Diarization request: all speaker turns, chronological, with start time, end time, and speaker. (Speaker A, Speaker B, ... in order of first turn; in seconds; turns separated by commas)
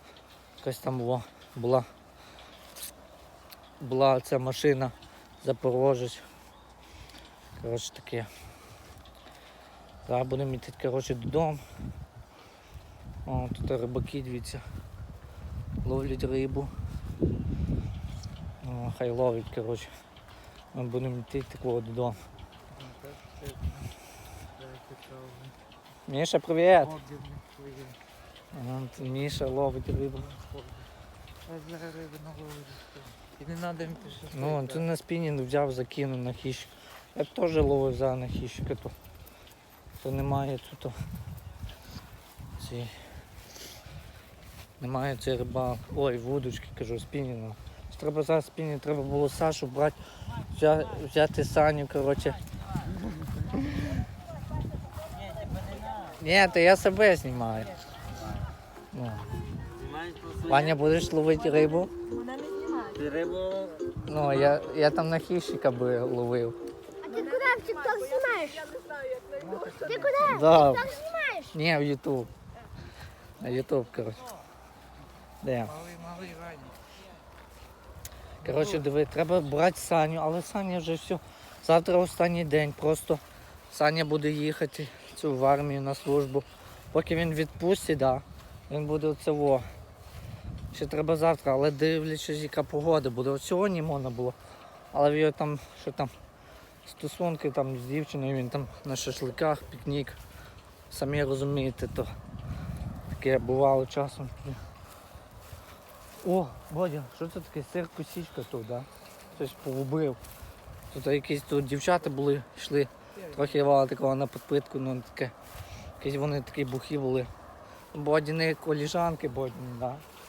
Speaker A: 0.6-1.9, Speaker A: 3.8-6.2, Speaker A: 7.6-8.3, Speaker A: 10.1-11.6, Speaker A: 13.2-14.6, Speaker A: 15.8-16.7, Speaker A: 18.6-19.9, Speaker A: 20.7-22.2, Speaker B: 22.7-23.9, Speaker B: 24.6-25.5, Speaker A: 26.1-26.9, Speaker B: 26.8-28.0, Speaker A: 28.5-30.3, Speaker B: 30.2-30.9, Speaker B: 31.4-34.9, Speaker A: 34.3-38.9, Speaker A: 40.0-40.9, Speaker A: 42.6-42.9, Speaker A: 44.8-50.0, Speaker A: 50.5-52.4, Speaker A: 56.0-57.8, Speaker A: 58.9-59.2, Speaker A: 60.4-61.9, Speaker C: 62.2-63.1, Speaker A: 64.0-66.6, Speaker C: 67.1-68.7, Speaker B: 69.0-70.3, Speaker A: 70.1-72.3, Speaker A: 73.4-74.3, Speaker A: 75.4-75.8, Speaker B: 75.6-76.8, Speaker A: 78.4-89.6, Speaker B: 78.4-78.9, Speaker A: 90.7-94.4, Speaker A: 94.9-96.1, Speaker A: 96.8-100.2, Speaker A: 100.9-102.1, Speaker A: 103.1-104.6, Speaker A: 106.2-110.2, Speaker A: 110.9-115.3, Speaker B: 113.2-113.5, Speaker A: 116.0-117.3, Speaker A: 117.9-120.0